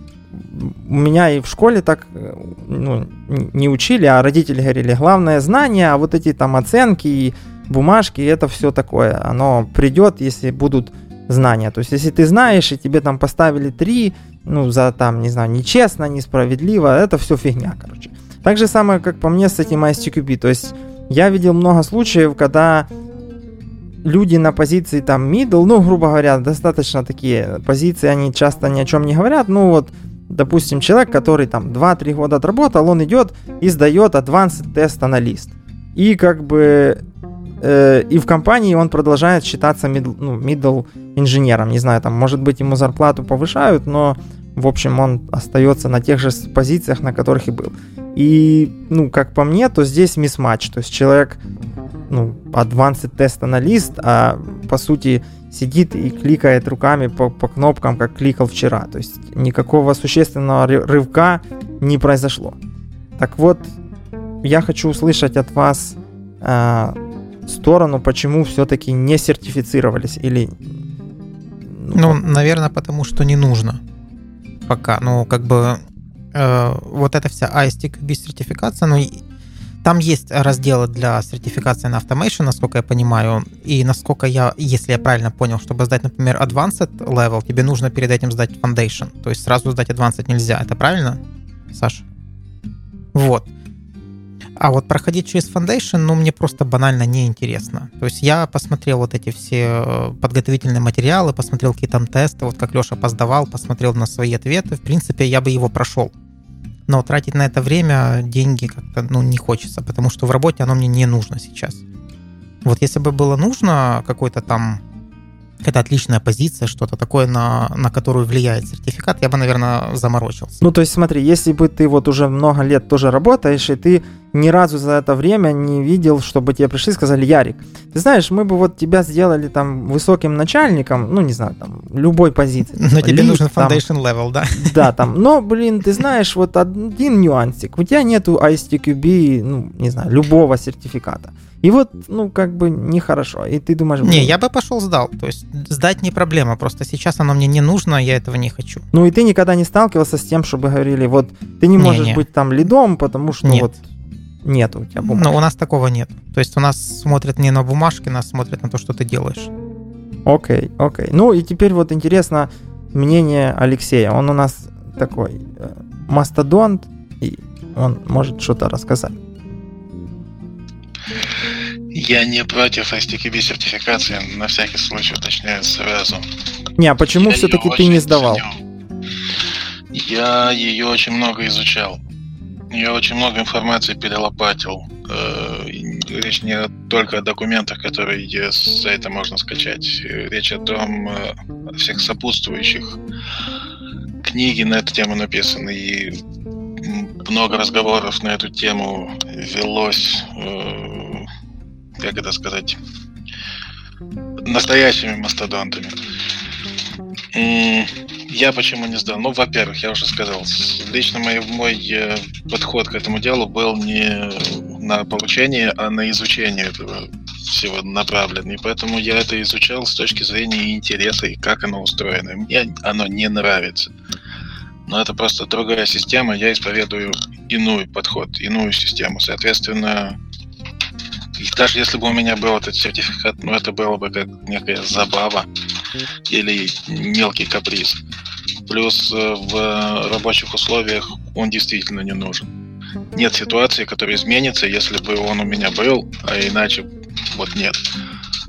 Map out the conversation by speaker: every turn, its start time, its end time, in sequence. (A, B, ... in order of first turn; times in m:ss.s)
0:00.3-0:22.9 A
0:24.0-0:37.0 A
0:37.6-0:51.4 A
0:52.1-1:02.6 A
1:03.2-1:03.7 A
1:04.4-1:07.0 A
1:07.5-1:10.6 A
1:11.6-1:12.2 A
1:12.0-1:13.8 B
1:14.7-1:15.8 B
1:16.3-1:19.2 B
1:19.8-1:31.2 B
1:31.7-1:32.0 B
1:33.1-1:33.5 B
1:34.6-1:46.1 B
1:46.9-1:51.8 B
1:52.6-1:54.8 B
1:55.6-2:00.6 B
2:00.6-2:13.8 A
2:12.8-2:14.8 B
2:14.6-2:24.4 A
2:24.0-2:28.8 B
2:28.9-2:33.8 A
2:31.8-2:32.2 B
2:34.4-2:35.3 A
2:35.0-2:39.5 B
2:40.3-2:49.2 A
2:51.9-2:56.2 C
2:56.8-2:58.4 A
2:57.2-2:58.6 C
2:59.9-3:02.0 C
3:02.7-3:13.0 C
3:14.2-3:16.2 C
3:16.8-3:21.3 C
3:22.0-3:22.8 C
3:24.5-3:26.0 C
3:27.3-3:43.9 C
3:44.9-3:50.2 C
3:51.4-3:55.5 C
3:56.3-3:58.0 C
3:58.7-4:02.5 C
4:03.1-4:07.8 C